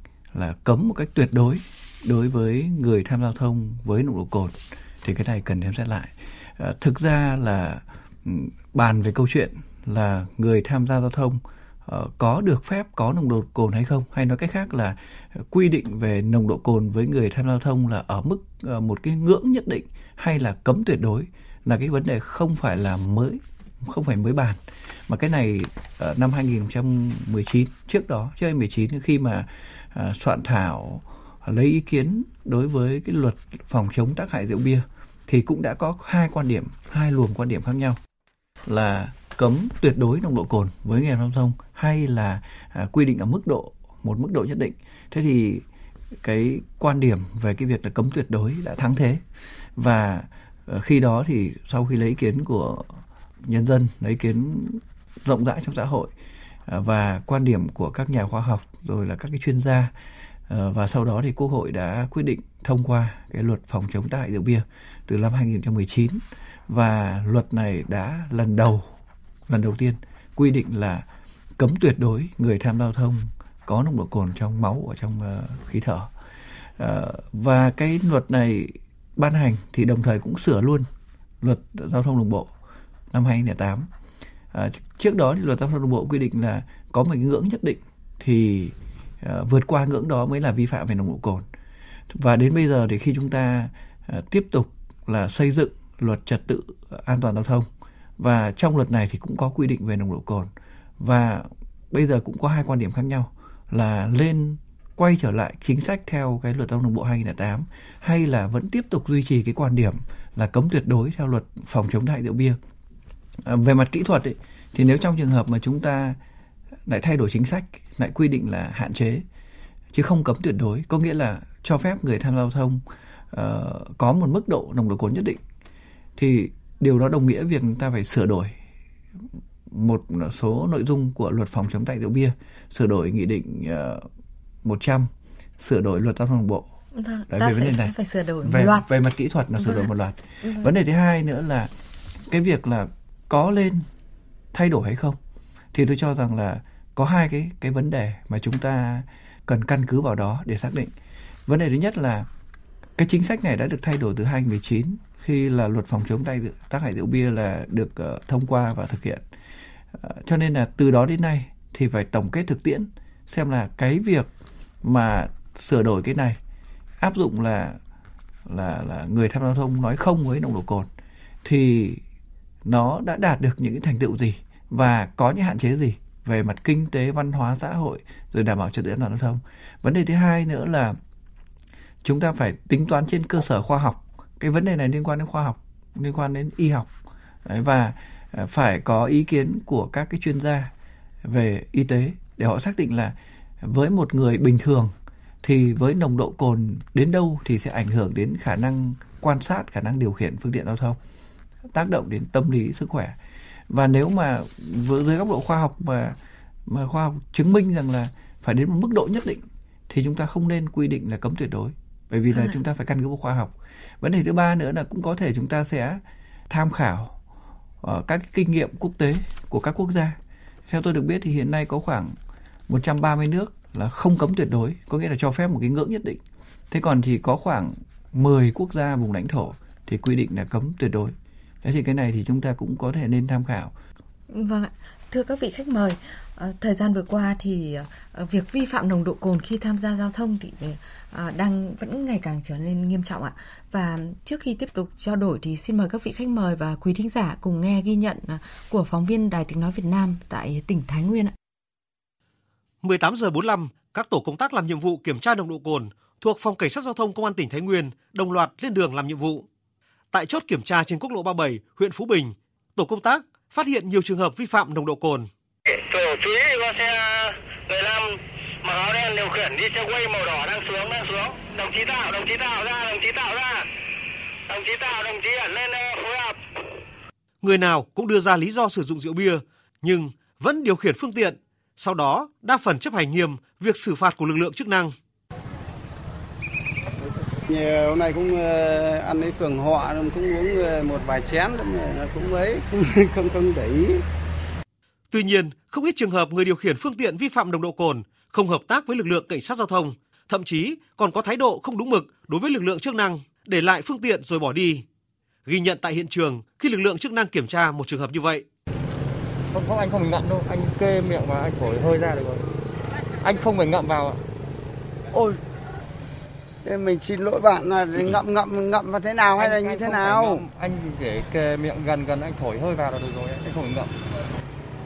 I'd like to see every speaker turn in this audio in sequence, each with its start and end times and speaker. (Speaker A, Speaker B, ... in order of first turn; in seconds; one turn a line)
Speaker A: 0.3-38.0
Speaker A: 38.6-45.6
Speaker A: 46.2-49.2
Speaker A: 49.8-56.1
Speaker A: 56.7-59.9
Speaker A: 60.5-68.9
Speaker A: 69.5-71.0
Speaker A: 71.6-76.1
Speaker A: 76.8-80.9
Speaker A: 81.4-82.5
Speaker A: 83.1-83.9
Speaker A: 84.5-91.5
Speaker A: 92.1-97.7
Speaker A: 98.2-112.6
Speaker A: 113.4-116.2
Speaker A: 116.8-119.2
Speaker A: 119.9-125.4
Speaker A: 126.2-128.5
Speaker A: 129.7-134.1
Speaker A: 134.6-136.7
Speaker B: 136.9-138.8
Speaker A: 137.3-141.7
Speaker B: 139.6-139.9
Speaker B: 140.4-140.7
Speaker A: 142.3-143.9
Speaker A: 144.5-145.2
Speaker A: 145.7-150.9
Speaker A: 151.5-152.3
Speaker A: 153.0-159.2
Speaker A: 159.9-164.3
Speaker A: 164.8-166.4
Speaker A: 167.0-167.8
Speaker A: 168.4-170.9
Speaker A: 171.4-172.0
Speaker A: 172.6-181.0
Speaker A: 182.0-186.9
Speaker A: 187.4-190.7
Speaker A: 191.2-201.0
Speaker A: 201.7-203.2
Speaker A: 203.7-217.2
Speaker A: 217.8-222.2
Speaker A: 222.7-233.7
Speaker B: 234.3-251.3
Speaker C: 252.8-259.4
Speaker C: 260.1-265.3
Speaker D: 265.7-273.7
Speaker D: 274.5-276.4
Speaker C: 277.4-284.9
Speaker E: 287.0-294.0
Speaker C: 295.1-304.8
Speaker C: 305.4-308.4
Speaker F: 309.5-312.4
Speaker F: 313.2-314.2
Speaker E: 315.1-315.4
Speaker E: 316.6-320.4
Speaker F: 319.4-323.9